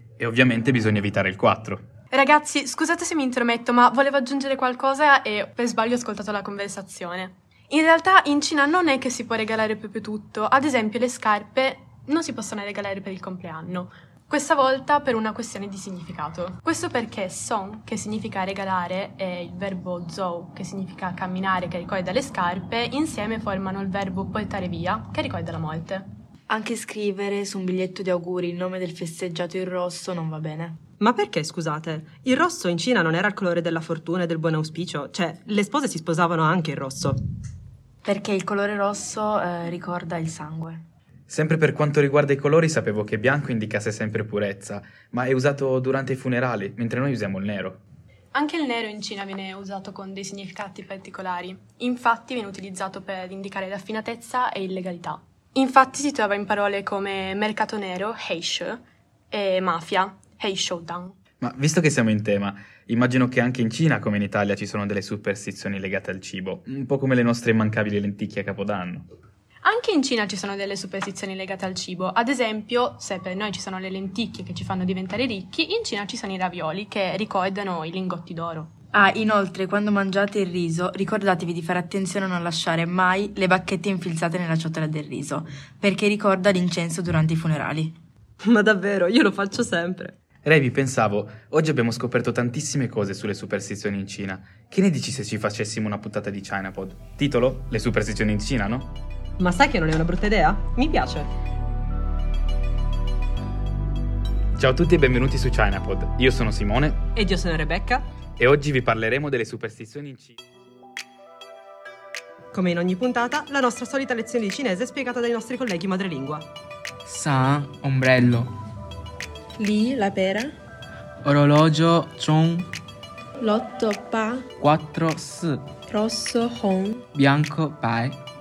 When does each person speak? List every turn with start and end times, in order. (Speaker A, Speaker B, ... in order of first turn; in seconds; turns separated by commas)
Speaker A: 0.2-1.9, Speaker B: 2.1-26.1, Speaker C: 26.5-30.8, Speaker D: 31.0-37.2, Speaker C: 38.0-40.8, Speaker A: 41.3-47.8, Speaker B: 48.3-61.2, Speaker A: 61.4-69.1, Speaker B: 69.6-78.7, Speaker C: 78.9-88.0, Speaker D: 88.4-90.2, Speaker A: 90.4-98.9, Speaker D: 99.4-101.3, Speaker A: 104.6-107.1, Speaker D: 107.2-108.1, Speaker A: 108.4-110.4, Speaker D: 112.5-116.5, Speaker E: 117.1-118.5, Speaker F: 119.6-120.6, Speaker E: 121.2-122.7, Speaker F: 123.4-124.5, Speaker E: 124.6-125.6, Speaker F: 125.9-127.2, Speaker E: 127.2-128.2